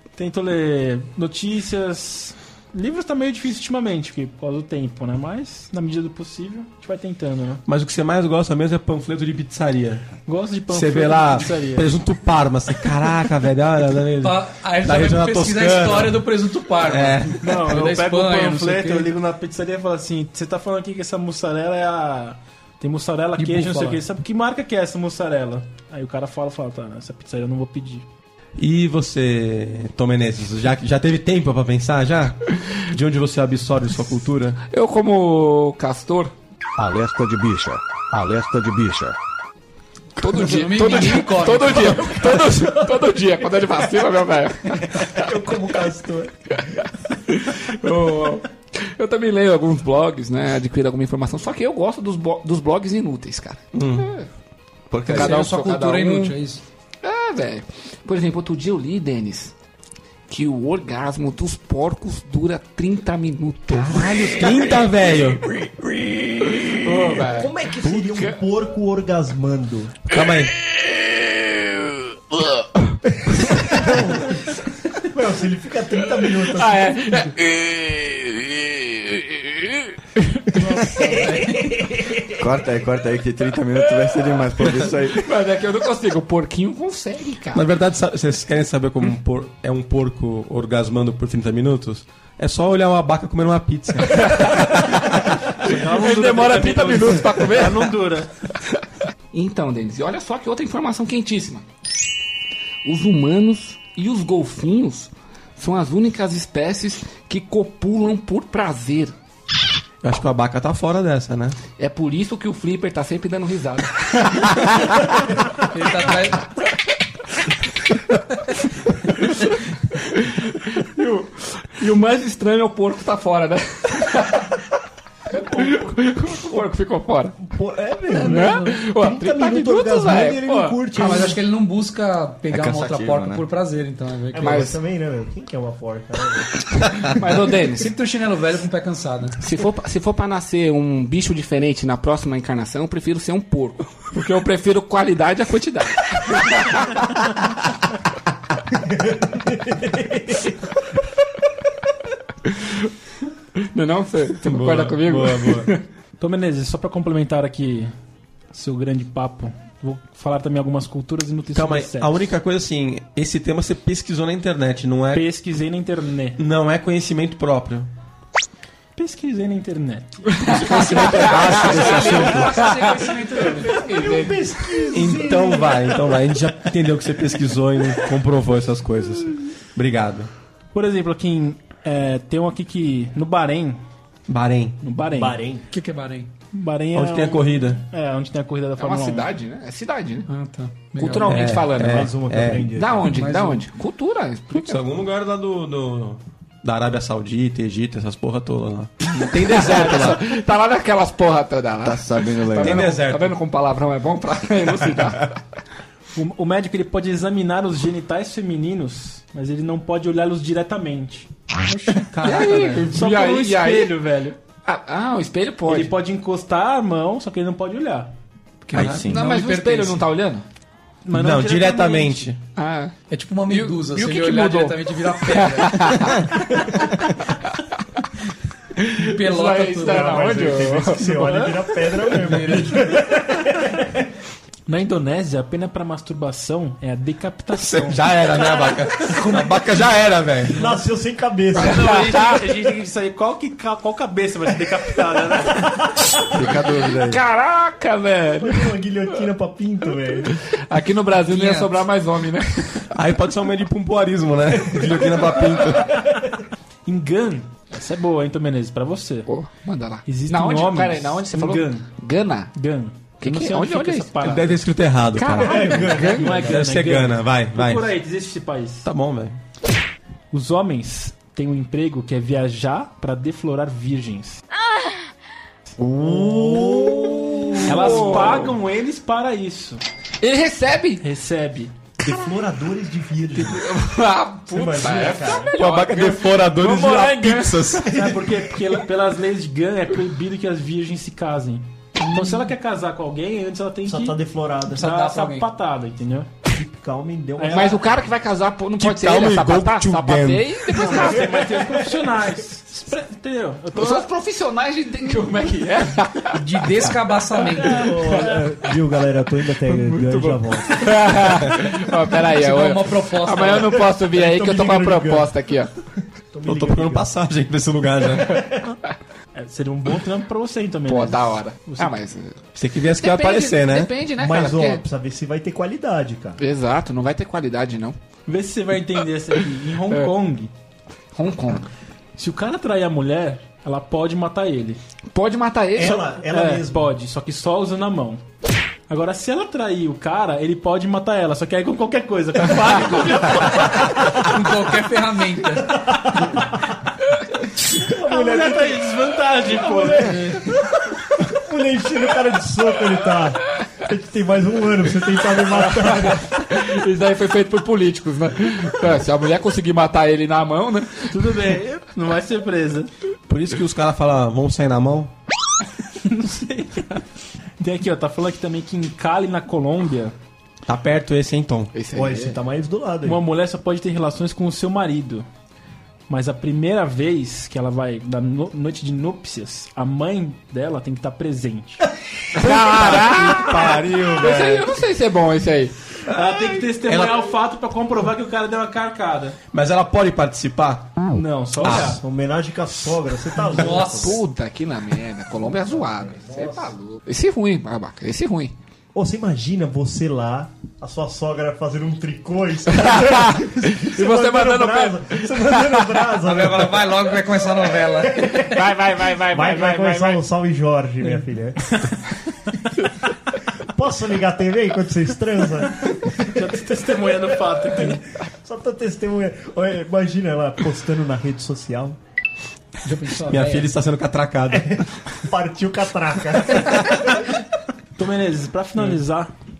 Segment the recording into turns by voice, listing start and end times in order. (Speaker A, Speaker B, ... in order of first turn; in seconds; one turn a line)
Speaker A: 0.1-7.6
Speaker B: 7.7-10.1
Speaker A: 10.2-11.9
Speaker B: 10.7-16.3
Speaker C: 14.2-19.1
Speaker B: 16.8-17.6
Speaker A: 17.4-28.0
Speaker C: 23.4-24.0
Speaker B: 28.6-34.6
Speaker D: 34.7-36.3
Speaker E: 36.8-39.1
Speaker D: 40.2-45.3
Speaker C: 40.3-42.4
Speaker F: 45.0-46.6
Speaker D: 46.6-54.3
Speaker B: 53.7-54.1
Speaker G: 54.9-55.5
Speaker C: 55.0-56.6
Speaker D: 55.1-56.4
Speaker D: 57.0-59.5
Speaker D: 60.3-64.7
Speaker B: 63.8-65.4
Speaker D: 65.8-68.4
Speaker F: 66.8-70.0
Speaker B: 70.1-70.5
Speaker D: 71.4-72.4
Speaker F: 73.3-77.3
Speaker D: 76.2-79.9
Speaker F: 80.5-82.3
Speaker C: 81.0-81.6
Speaker G: 82.4-85.3
Speaker D: 84.0-87.7
Speaker B: 87.5-94.6
Speaker D: 94.1-98.0
Speaker A: 95.6-98.3
Speaker D: 99.3-101.6
Speaker D: 102.8-109.1
Speaker B: 110.0-111.6
Speaker D: 111.8-115.2
Speaker C: 115.7-116.4
Speaker D: 119.1-124.7
Speaker D: 125.3-127.4
Speaker F: 125.3-126.7
Speaker F: 127.4-131.4
Speaker C: 128.1-128.7
Speaker D: 128.2-130.8
Speaker C: 130.9-134.7
Speaker G: 132.5-133.4
Speaker F: 134.3-137.0
Speaker D: 134.4-134.8
Speaker D: 137.0-137.9
Speaker C: 137.2-139.4
Speaker D: 139.4-147.0
Speaker F: 148.8-150.6
Speaker D: 152.4-152.9
Speaker D: 153.6-155.8
Speaker B: 154.4-155.7
Speaker A: 156.2-157.9
Speaker A: 158.5-162.2
Speaker B: 161.5-165.3
Speaker A: 165.1-166.4
Speaker B: 166.4-167.9
Speaker A: 168.9-172.1
Speaker D: 170.4-174.9
Speaker C: 170.5-174.0
Speaker B: 170.8-172.5
Speaker F: 173.9-176.0
Speaker B: 174.9-180.3
Speaker A: 180.7-183.8
Speaker B: 184.3-184.8
Speaker A: 184.8-185.4
Speaker F: 185.1-185.6
Speaker C: 185.7-186.3
Speaker A: 186.5-189.3
Speaker B: 186.9-187.8
Speaker D: 188.8-190.3
Speaker C: 190.3-191.5
Speaker D: 190.9-192.1
Speaker B: 191.2-192.7
Speaker F: 191.8-193.1
Speaker D: 192.7-194.8
Speaker C: 193.1-193.6
Speaker B: 194.5-200.3
Speaker D: 199.1-205.3
Speaker G: 201.8-202.9
Speaker B: 202.6-203.3
Speaker A: 206.1-212.1
Speaker B: 211.9-213.0
Speaker D: 212.2-214.0
Speaker A: 212.9-214.4
Speaker D: 214.6-215.9
Speaker A: 215.7-218.1
Speaker C: 218.7-220.0
Speaker B: 218.7-219.1
Speaker G: 218.7-219.2
Speaker D: 218.8-220.4
Speaker A: 221.0-222.3
Speaker B: 221.1-222.4
Speaker D: 222.5-222.9
Speaker C: 223.1-226.2
Speaker D: 223.5-226.3
Speaker D: 228.8-231.4
Speaker C: 228.9-230.5
Speaker F: 229.8-234.1
Speaker A: 231.0-231.6
Speaker C: 232.2-232.9
Speaker A: 234.7-238.2
Speaker B: 237.5-240.6
Speaker F: 240.5-242.1
Speaker D: 241.5-242.7
Speaker A: 241.5-245.7
Speaker G: 246.3-247.2
Speaker D: 246.3-248.8
Speaker F: 248.4-250.3
Speaker D: 250.3-252.9
Speaker C: 251.3-251.8
Speaker B: 252.9-256.0
Speaker F: 254.7-256.4
Speaker A: 256.9-259.3
Speaker D: 259.3-262.5
Speaker A: 260.1-261.9
Speaker A: 262.5-264.6
Speaker D: 263.2-264.2
Speaker B: 264.2-265.8
Speaker D: 265.1-266.5
Speaker F: 265.3-266.7
Speaker A: 265.9-268.8
Speaker B: 266.4-267.9
Speaker B: 268.8-269.4
Speaker A: 270.3-274.4
Speaker F: 275.9-278.4
Speaker A: 276.0-276.7
Speaker D: 277.6-278.5
Speaker A: 277.6-279.8
Speaker D: 280.2-281.0
Speaker A: 281.0-281.7
Speaker F: 282.0-283.7
Speaker D: 283.3-287.8
Speaker F: 284.5-285.5
Speaker B: 285.5-287.9
Speaker A: 286.6-287.1
Speaker A: 287.9-294.2
Speaker F: 287.9-288.5
Speaker F: 293.8-294.9
Speaker C: 294.7-295.5
Speaker A: 294.7-296.3
Speaker F: 296.5-297.9
Speaker A: 297.4-297.8
Speaker D: 297.5-301.6
Speaker B: 298.8-300.7
Speaker A: 300.7-304.1
Speaker F: 300.8-302.2
Speaker D: 303.7-306.4
Speaker C: 306.3-307.9
Speaker D: 307.6-308.7
Speaker F: 307.7-311.2
Speaker D: 309.6-315.7
Speaker C: 312.3-313.8
Speaker F: 313.9-315.3
Speaker F: 316.3-317.1
Speaker B: 316.4-318.4
Speaker F: 318.2-318.8
Speaker A: 319.3-321.9
Speaker D: 320.9-322.4
Speaker B: 322.6-323.9
Speaker D: 322.9-324.8
Speaker F: 324.1-326.4
Speaker D: 326.4-328.0
Speaker A: 328.3-330.5
Speaker D: 329.9-330.1
Speaker D: 331.1-331.7
Speaker A: 332.2-334.8
Speaker D: 335.1-336.2
Speaker F: 335.7-336.9
Speaker A: 336.3-338.2
Speaker A: 338.9-344.1
Speaker C: 343.9-345.8
Speaker F: 345.6-346.7
Speaker F: 347.6-356.4
Speaker A: 347.8-350.5
Speaker D: 355.5-361.3
Speaker A: 361.1-362.9
Speaker B: 363.3-365.1
Speaker A: 366.0-367.1
Speaker A: 367.6-370.1
Speaker B: 370.6-371.7
Speaker D: 371.7-372.4
Speaker F: 371.9-373.2
Speaker A: 373.0-375.2
Speaker A: 376.1-381.8
Speaker D: 382.4-385.7
Speaker B: 382.4-384.7
Speaker A: 386.1-389.4
Speaker B: 386.8-387.3
Speaker B: 389.5-390.9
Speaker A: 391.1-392.0
Speaker B: 391.6-392.0
Speaker F: 391.6-394.2
Speaker C: 393.5-394.2
Speaker D: 393.6-398.5
Speaker F: 395.4-396.7
Speaker F: 398.9-407.1
Speaker D: 402.8-406.0
Speaker C: 406.2-408.3
Speaker F: 407.7-408.7
Speaker D: 408.3-410.2
Speaker F: 409.3-411.9
Speaker F: 413.7-422.0
Speaker A: 416.3-418.0
Speaker C: 422.8-423.7
Speaker B: 423.3-424.7
Speaker F: 424.5-427.3
Speaker A: 427.9-429.3